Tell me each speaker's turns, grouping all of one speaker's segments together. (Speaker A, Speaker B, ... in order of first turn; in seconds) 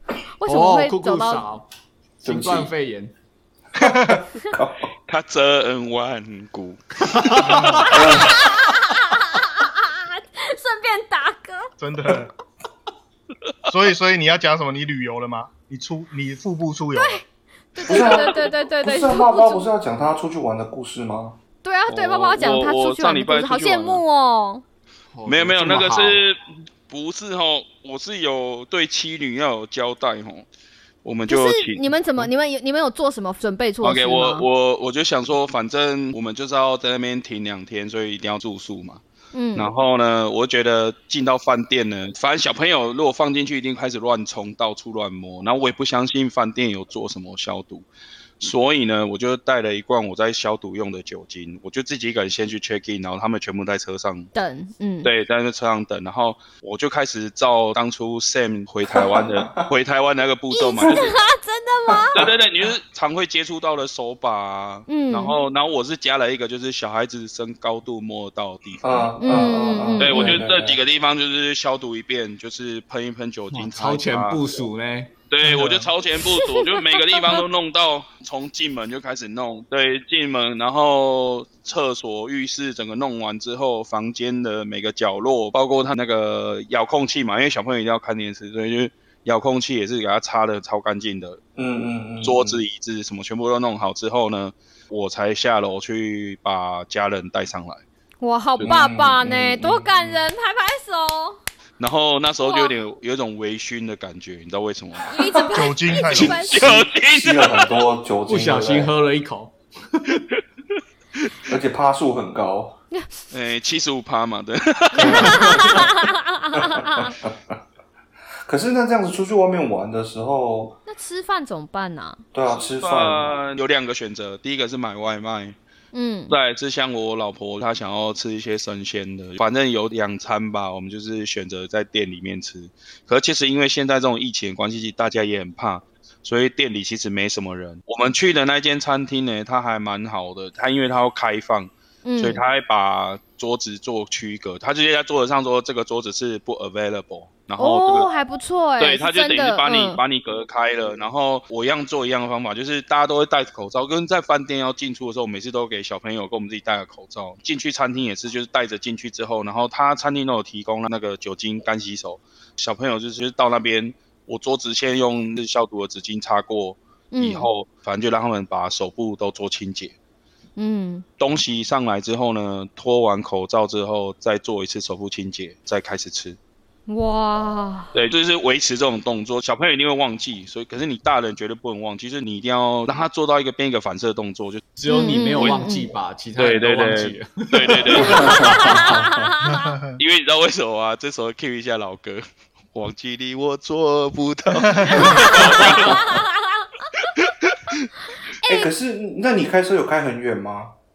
Speaker A: 0.4-1.4, 7.9-11.7, 16.9-17.2, 17.7-19.7, 21.6-24.6, 31.3-34.5, 39.3-39.7, 54.3-55.1, 60.5-62.2, 64.9-65.3, 69.2-70.4, 76.3-77.4, 98.2-101.4, 102.4-102.7, 105.0-106.8, 115.0-117.1, 120.8-122.2, 125.9-126.3, 142.0-142.4, 147.6-150.0, 167.1-167.5, 170.6-171.0, 176.9-177.9, 184.8-185.9, 188.0-189.7, 194.9-196.9, 198.4-198.7
Speaker B: 0.5-1.6, 2.2-3.1, 7.0-7.9, 25.1-26.2, 73.5-75.1, 108.3-110.2, 184.8-188.8
Speaker C: 2.2-2.7, 3.8-4.9, 7.9-8.4, 17.8-21.4, 58.9-59.7, 61.9-62.3, 68.8-70.8, 91.5-92.6, 98.6-100.2, 106.6-108.9, 111.5-112.8, 115.0-115.9, 116.7-117.5, 118.5-120.8, 122.3-123.3, 188.0-189.3, 198.4-200.7
Speaker D: 3.8-4.2, 7.4-8.0, 11.8-12.3, 13.7-17.2, 75.4-75.9, 105.5-106.8, 189.4-190.0
Speaker E: 5.1-7.9, 21.9-24.0, 25.3-30.5, 31.0-32.3, 33.8-39.0, 39.5-47.9, 48.4-54.3, 55.0-61.1, 62.1-69.1, 70.0-74.4, 75.3-91.4, 92.2-97.8, 101.8-107.8, 113.3-115.8, 122.5-125.6, 126.3-148.1, 148.8-169.9, 171.2-176.4, 177.9-184.7, 185.3-185.7, 186.3-188.8, 190.0-196.1, 197.0-197.8